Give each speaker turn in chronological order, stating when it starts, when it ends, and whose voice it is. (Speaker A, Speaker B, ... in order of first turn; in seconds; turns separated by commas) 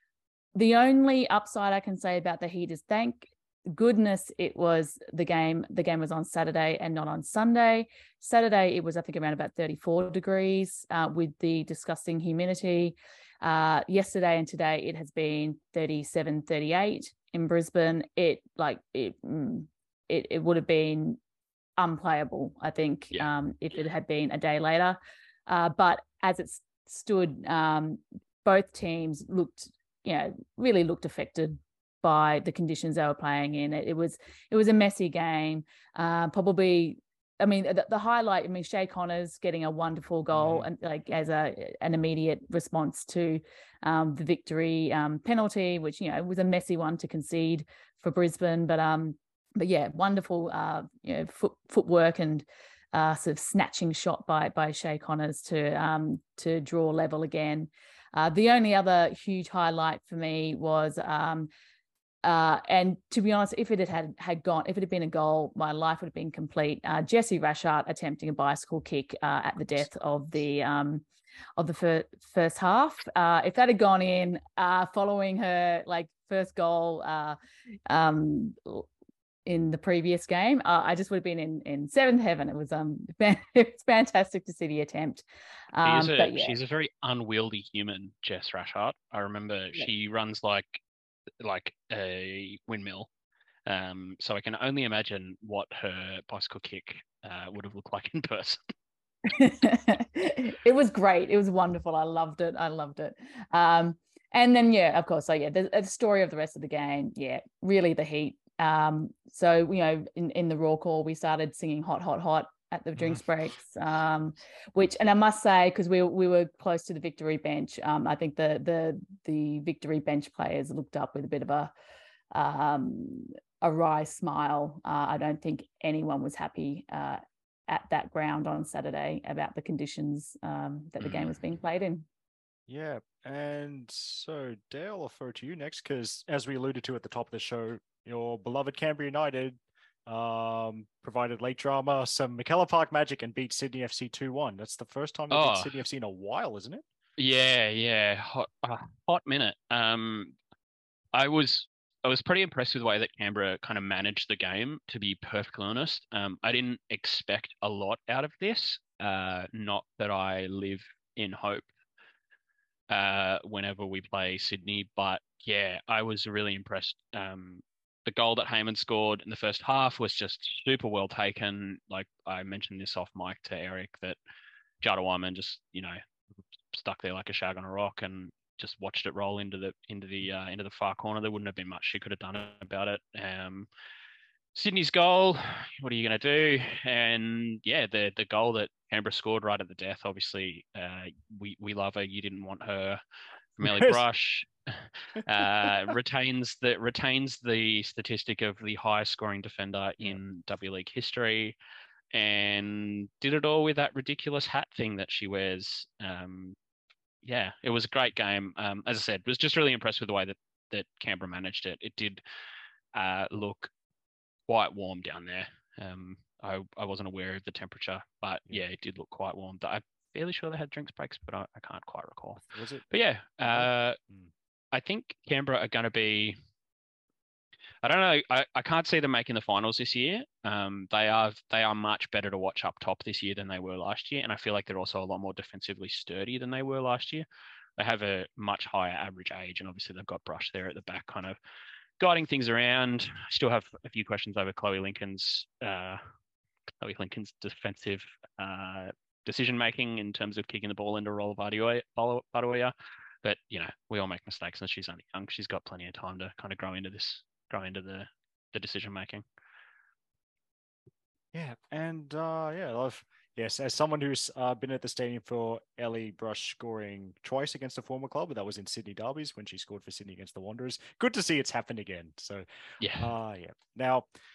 Speaker A: 0.5-21.2, Speaker A: 21.8-61.5, Speaker B: 40.3-40.7, Speaker A: 62.2-71.0, Speaker A: 71.6-77.4, Speaker A: 77.9-78.9, Speaker A: 79.5-86.5, Speaker C: 85.8-90.8, Speaker C: 91.4-93.1, Speaker C: 93.7-98.6, Speaker A: 99.3-121.7, Speaker A: 122.3-132.1, Speaker C: 131.0-131.4, Speaker B: 132.7-146.8, Speaker C: 145.3-145.7, Speaker C: 147.2-150.3, Speaker C: 151.1-161.7, Speaker C: 162.9-174.2, Speaker C: 174.8-176.0, Speaker C: 176.7-183.7, Speaker C: 184.5-193.0, Speaker C: 193.6-201.6, Speaker B: 193.6-194.0, Speaker B: 195.4-195.9, Speaker C: 202.1-206.6, Speaker C: 207.2-212.2, Speaker C: 212.9-213.7, Speaker C: 214.5-224.0, Speaker B: 222.5-222.9, Speaker B: 223.4-224.3, Speaker C: 224.7-226.3, Speaker C: 227.8-237.2, Speaker C: 237.8-241.4, Speaker C: 242.0-246.0, Speaker C: 246.8-259.2, Speaker B: 261.3-274.1, Speaker C: 272.8-273.1